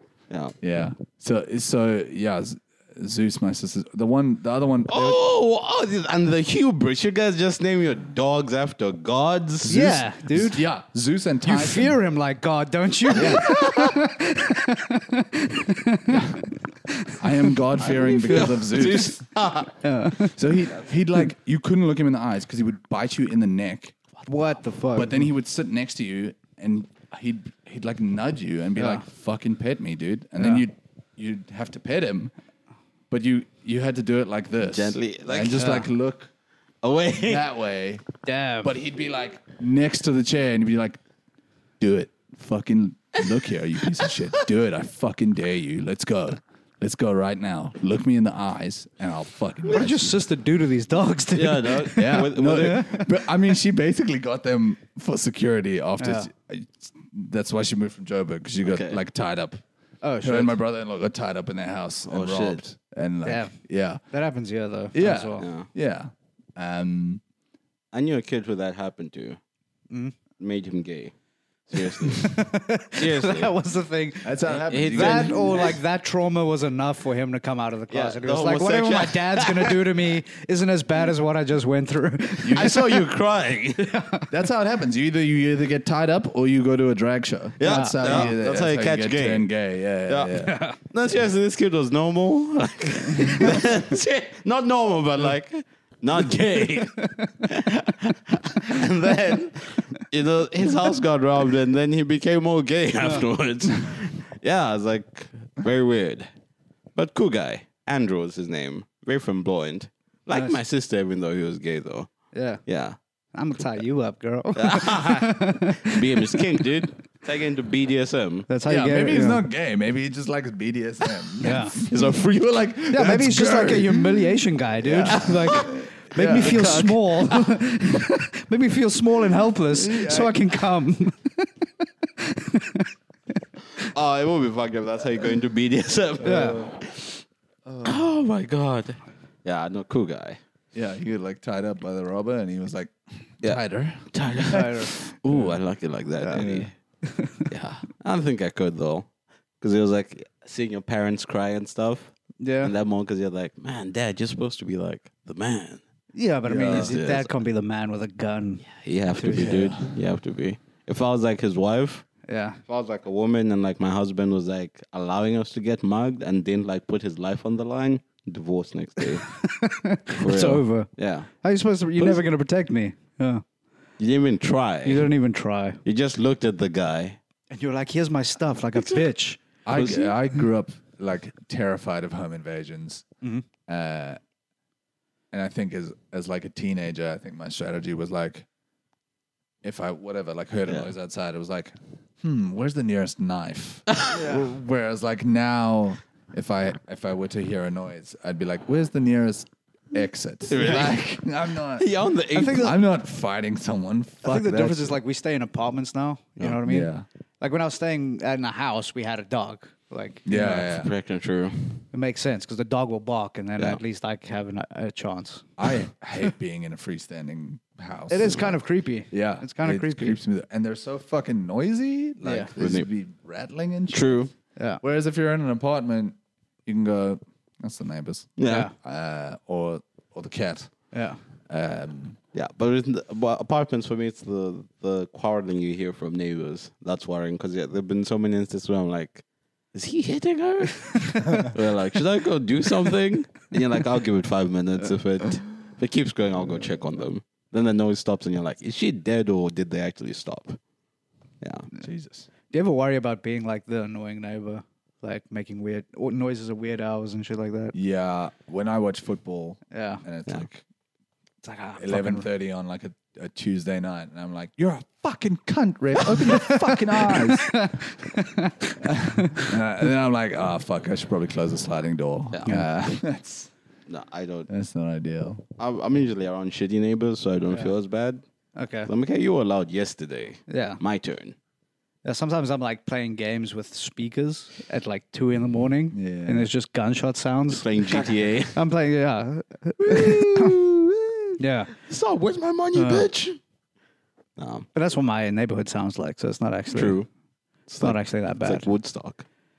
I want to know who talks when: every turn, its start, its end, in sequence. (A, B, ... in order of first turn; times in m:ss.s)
0:00.3-0:00.6 A
0:00.6-0:05.2 B
0:04.9-0:10.0 A
0:09.6-0:10.6 C
0:09.7-0:12.0 B
0:11.4-0:17.6 C
0:13.2-0:13.5 B
0:13.2-0:13.6 A
0:16.1-0:16.4 B
0:17.2-0:19.2 B
0:17.8-0:19.7 A
0:19.8-0:20.4 C
0:20.3-0:24.0 B
0:24.2-0:25.3 C
0:24.9-0:32.3 B
0:28.8-0:29.0 C
0:30.4-0:30.6 C
0:33.1-0:36.3 B
0:34.6-0:35.7 A
0:35.6-0:35.9 C
0:36.8-0:37.5 A
0:37.2-0:38.0 B
0:38.2-0:38.7 C
0:38.6-0:41.0 B
0:41.8-0:50.1 B
0:49.7-0:53.1 C
0:51.3-0:52.9 A
0:52.0-0:59.6 B
0:56.0-0:56.3 C
0:58.6-0:59.0 A
1:00.0-1:00.6 C
1:00.2-1:04.0 B
1:02.1-1:02.6 A
1:03.2-1:03.6 C
1:04.1-1:05.5 C
1:04.9-1:07.2 B
1:05.4-1:05.7 A
1:07.9-1:09.4 A
1:09.9-1:10.2 C
1:10.4-1:11.1 A
1:11.7-1:13.5 A
1:11.8-1:23.0 C
1:14.2-1:15.6 B
1:14.6-1:15.8 A
1:17.9-1:19.9 A
1:22.4-1:22.8 B
1:22.5-1:23.9 A
1:23.8-1:24.3 C
1:24.3-1:30.6 B
1:27.6-1:29.5 A
1:27.6-1:28.4 C
1:30.1-1:46.3 A
1:30.4-1:30.8 C
1:47.0-1:53.0 A
1:50.3-1:50.6 C
1:52.3-1:52.6 C
1:53.3-1:56.6 C
1:54.6-1:58.5 A
1:58.5-1:59.4 C
1:58.6-2:04.3 B
2:01.4-2:01.8 C
2:01.8-2:02.4 A
2:02.9-2:11.5 C
2:04.8-2:06.9 B
2:05.0-2:05.8 A
2:06.4-2:07.6 A
2:09.7-2:10.4 B
2:12.2-2:12.9 C
2:13.9-2:17.2 A
2:16.2-2:16.6 C
2:16.2-2:16.7 B
2:17.7-2:18.0 B
2:17.8-2:20.4 A
2:20.7-2:24.7 B
2:23.4-2:26.7 A
2:24.5-2:24.9 C
2:25.3-2:25.6 B
2:26.2-2:27.5 C
2:27.5-2:29.1 A
2:29.6-2:35.8 A
2:32.4-2:32.7 C
2:36.1-2:39.6 C
2:36.5-2:37.0 B
2:36.6-2:37.3 A
2:38.7-2:42.1 A
2:39.3-2:39.9 B
2:42.3-2:42.6 C
2:42.7-2:49.4 A
2:49.3-2:53.4 C
2:50.2-2:51.3 A
2:52.0-2:52.2 A
2:54.0-2:55.1 A
2:54.8-2:55.8 C
2:55.8-2:57.2 A
2:57.5-2:59.4 C
2:58.8-2:59.0 A
2:59.7-3:03.0 B
2:59.7-3:00.1 A
3:03.7-3:04.2 B
3:05.3-3:08.5 B
3:09.6-3:25.0 B
3:13.9-3:14.2 A
3:20.5-3:21.1 A
3:21.8-3:22.7 A
3:22.3-3:22.8 C
3:24.2-3:30.3 C
3:26.4-3:27.1 B
3:30.2-3:30.9 B
3:30.3-3:31.8 A
3:31.9-3:35.5 C
3:35.6-3:38.6 B
3:38.1-3:40.2 C
3:39.1-3:44.3 B
3:42.2-3:42.5 C
3:42.6-3:42.9 A
3:43.9-3:44.3 A
3:44.6-3:44.8 C
3:44.8-3:50.9 B
3:48.4-3:48.7 A
3:48.4-3:48.7 C
3:50.9-3:51.2 C
3:51.5-3:52.2 B
3:52.3-4:10.6 A
4:01.1-4:01.5 C
4:11.4-4:11.7 A
4:11.8-4:12.3 B
4:12.5-4:17.7 C
4:17.7-4:20.6 B
4:19.7-4:20.0 C
4:21.4-4:22.3 C
4:21.8-4:27.7 B
4:26.4-4:29.5 C
4:28.8-4:33.5 B
4:33.9-4:34.5 A
4:34.5-4:35.4 B
4:35.6-4:38.2 A
4:38.6-4:38.9 C
4:38.9-4:41.4 A
4:40.5-4:40.8 C
4:42.0-4:47.7 C
4:45.9-4:46.5 B
4:47.5-4:48.6 A
4:48.5-4:50.6 C
4:49.9-4:53.4 A
4:51.4-4:51.7 C
4:52.8-4:53.1 C
4:54.4-4:54.7 A
4:54.7-4:57.0 C
4:56.7-4:57.1 A
4:57.7-4:59.3 A
4:57.8-4:58.7 C